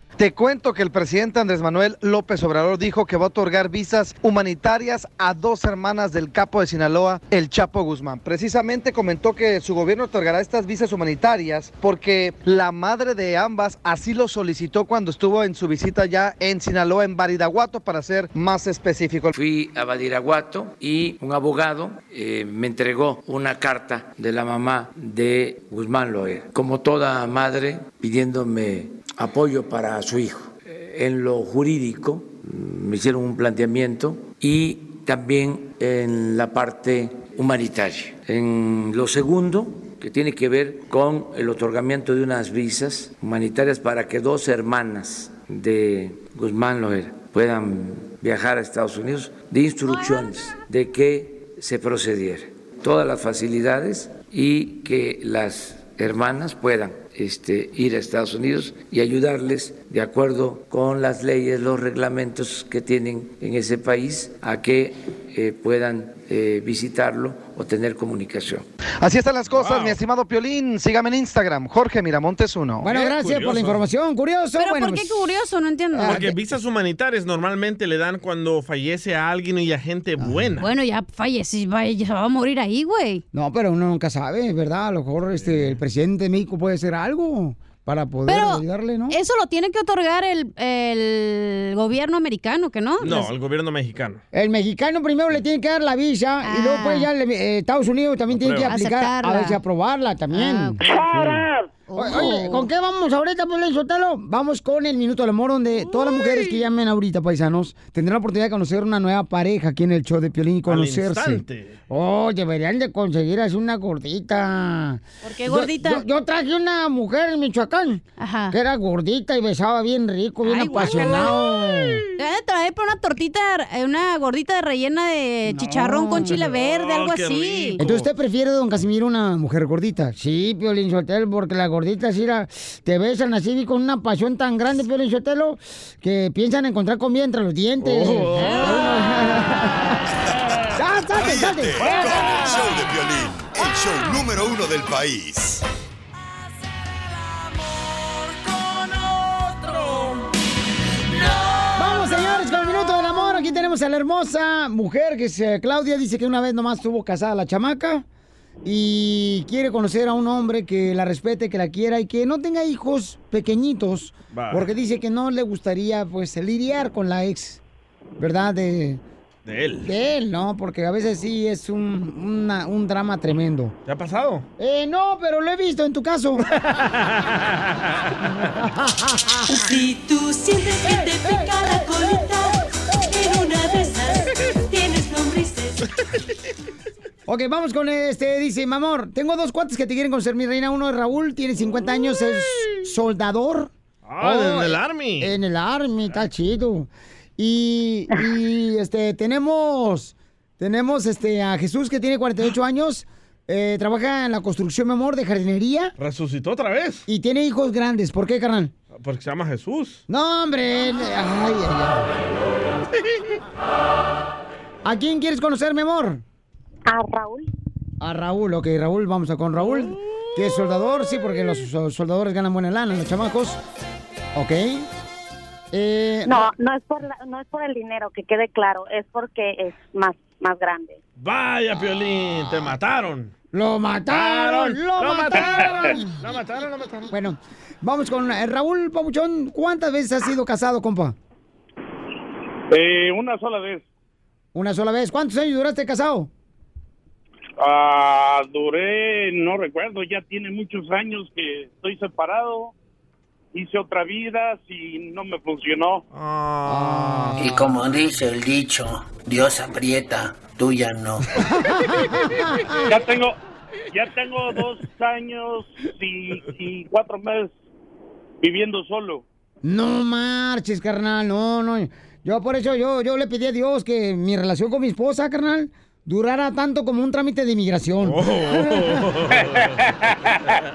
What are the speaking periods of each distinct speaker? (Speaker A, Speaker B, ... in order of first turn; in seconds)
Speaker A: 0.2-19.4, 69.0-72.9
Speaker B: 19.4-68.7
Speaker C: 69.5-70.0, 72.8-73.8, 76.1-80.7, 85.4-85.8, 93.0-94.2, 98.3-98.7, 110.7-111.8, 126.2-128.1, 137.8-138.9, 164.3-164.7, 169.4-169.9, 173.9-174.4, 176.6-177.5, 194.0-195.4, 206.0-207.1, 208.9-210.0, 231.2-233.3, 234.1-237.1, 256.1-257.4, 278.0-279.8
Speaker D: 72.8-75.3, 75.9-76.3, 80.2-80.5, 83.3-89.2, 94.3-101.4, 101.9-122.0, 125.5-126.3, 127.8-139.8, 140.8-142.0, 151.7-158.1, 158.6-167.6, 168.2-169.0, 169.8-173.7, 174.6-176.4, 178.4-179.4, 187.3-205.9, 207.1-208.7, 210.1-212.1, 214.8-216.2, 218.0-223.6, 224.3-224.9, 225.7-226.5, 233.5-236.1, 237.1-241.2, 244.5-246.3, 256.6-257.7, 261.6-262.8, 269.6-278.2
Speaker E: 74.6-76.3, 80.6-83.2, 88.3-93.3, 96.4-97.1, 98.7-99.6, 100.3-101.0, 101.9-102.7, 115.2-116.0, 118.2-118.5, 120.4-121.6, 122.2-127.8
Speaker F: 141.1-145.6
Speaker G: 179.5-185.9
Speaker H: 216.9-217.5, 226.3-231.0
Speaker I: 242.7-243.9, 247.6-252.7, 253.5-256.0, 262.9-263.4, 263.9-267.5, 268.4-269.2, 279.6-280.1
Speaker J: 257.4-261.3